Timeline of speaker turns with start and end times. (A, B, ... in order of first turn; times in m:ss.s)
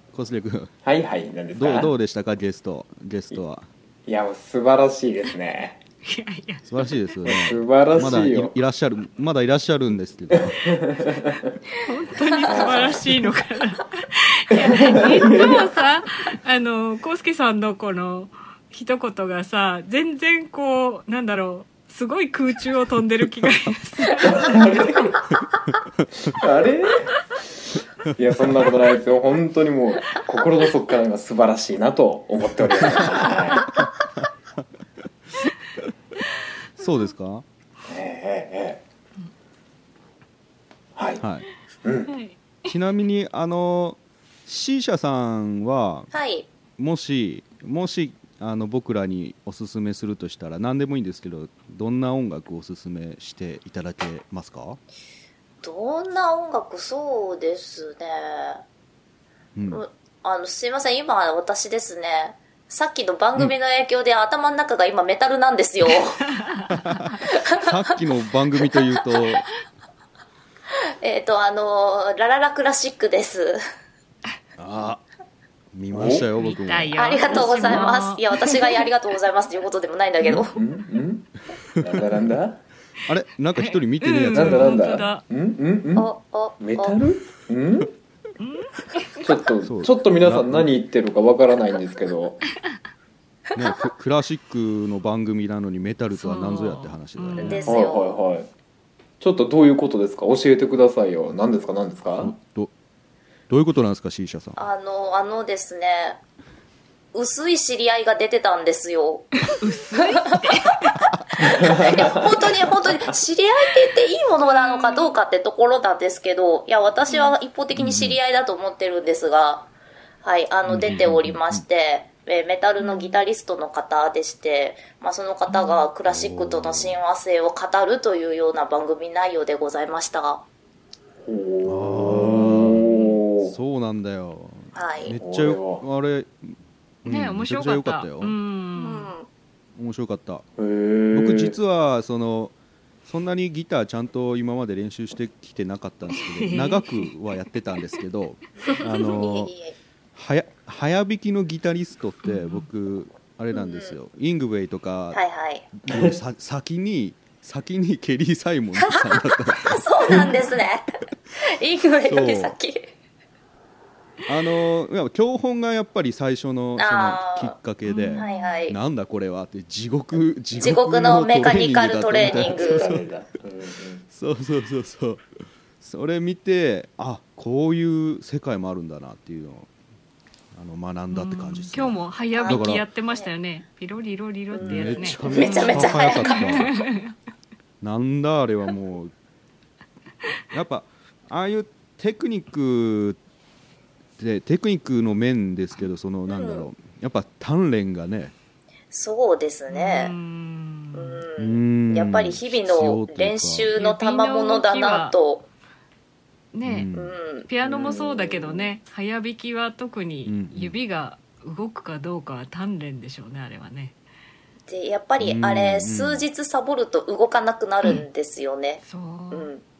0:00.1-0:00.7 A
0:00.8-0:01.9 B
0:01.5-0:03.7 A
0:04.0-0:05.8 B
0:06.0-0:06.7 C
0:06.7-0:10.7 A
0:07.2-0:08.5 B
0:10.3-0:11.5 B
0:11.8-0:25.0 C
0:12.5-0:13.0 D
0:12.5-0:13.2 B
0:14.5-0:15.7 B
0:24.2-0:25.2 B
0:26.2-0:27.4 B
0:28.0-0:33.8 B
0:34.2-0:34.6 A
0:36.8-0:37.4 A
0:36.8-0:37.1 C
0:37.9-0:38.8 B
0:41.0-0:41.2 B
0:41.2-0:41.5 A
0:41.8-0:42.1 B
0:42.1-0:42.7 C
0:42.7-0:46.1 A
0:46.1-0:46.5 D
0:46.8-0:54.8 A
0:55.6-0:58.6 D
0:59.5-0:59.8 A
0:59.7-1:06.3 D
1:06.4-1:07.2 C
1:06.8-1:09.4 A
1:07.2-1:07.7 D
1:08.6-1:09.2 D
1:11.0-1:13.6 D
1:14.6-1:15.0 A
1:15.7-1:17.0 A
1:15.9-1:16.2 B
1:16.4-1:18.2 C
1:17.0-1:20.6 D
1:20.2-1:22.6 B
1:23.0-1:24.9 A
1:23.6-1:25.2 C
1:24.3-1:27.9 B
1:26.0-1:27.0 D
1:28.4-1:29.2 C
1:29.2-1:32.4 B
1:29.6-1:30.7 A
1:33.5-1:37.8 A
1:36.1-1:37.7 C
1:37.4-1:38.2 D
1:37.6-1:38.5 B
1:39.2-1:42.3 B
1:42.2-1:42.7 A
1:43.5-1:44.6 A
1:44.6-1:46.2 D
1:47.1-1:50.9 D
1:49.5-1:51.0 C
1:51.4-1:53.0 B
1:51.5-1:59.7 D
1:54.5-1:55.1 C
1:57.1-1:57.4 C
1:57.7-1:58.2 A
2:00.2-2:10.4 D
2:00.6-2:01.6 A
2:02.8-2:03.2 C
2:05.5-2:05.8 C
2:06.1-2:07.0 A
2:11.2-2:13.5 B
2:11.6-2:12.9 A
2:12.4-2:13.2 C
2:13.4-2:18.4 A
2:14.7-2:15.2 D
2:15.2-2:15.8 B
2:17.0-2:19.1 C
2:18.8-2:19.3 D
2:19.7-2:20.4 A
2:20.6-2:21.5 B
2:21.1-2:22.5 A
2:23.0-2:29.5 A
2:26.3-2:27.1 C
2:28.7-2:29.7 D
2:30.1-2:35.2 A
2:32.2-2:32.7 C
2:33.5-2:33.9 D
2:35.1-2:35.7 D
2:35.8-2:40.2 A
2:35.9-2:36.2 B
2:38.8-2:42.9 D
2:42.0-2:42.6 A
2:44.3-2:53.0 A
2:46.8-2:47.5 D
2:47.8-2:48.6 C
2:48.2-2:48.8 D
2:50.6-2:53.0 D
2:52.1-2:54.0 B
2:54.1-2:55.2 A
2:55.8-2:59.7 A
3:00.5-3:02.8 A
3:01.1-3:07.1 C
3:02.4-3:03.3 D
3:04.5-3:06.6 D
3:04.6-3:06.8 A
3:05.0-3:06.0 B
3:07.8-3:09.1 A
3:10.5-3:13.2 A
3:14.2-3:18.3 A
3:16.3-3:16.7 D
3:18.9-3:20.1 D
3:19.7-3:21.2 C
3:20.9-3:25.5 D
3:21.4-3:23.7 A
3:23.8-3:25.2 C
3:26.5-3:26.9 C
3:26.6-3:27.1 A
3:26.9-3:27.5 D
3:27.4-3:34.0 C
3:27.6-3:28.7 B
3:30.2-3:30.8 A
3:34.7-3:39.6 D
3:35.2-3:36.2 A
3:38.8-3:39.5 C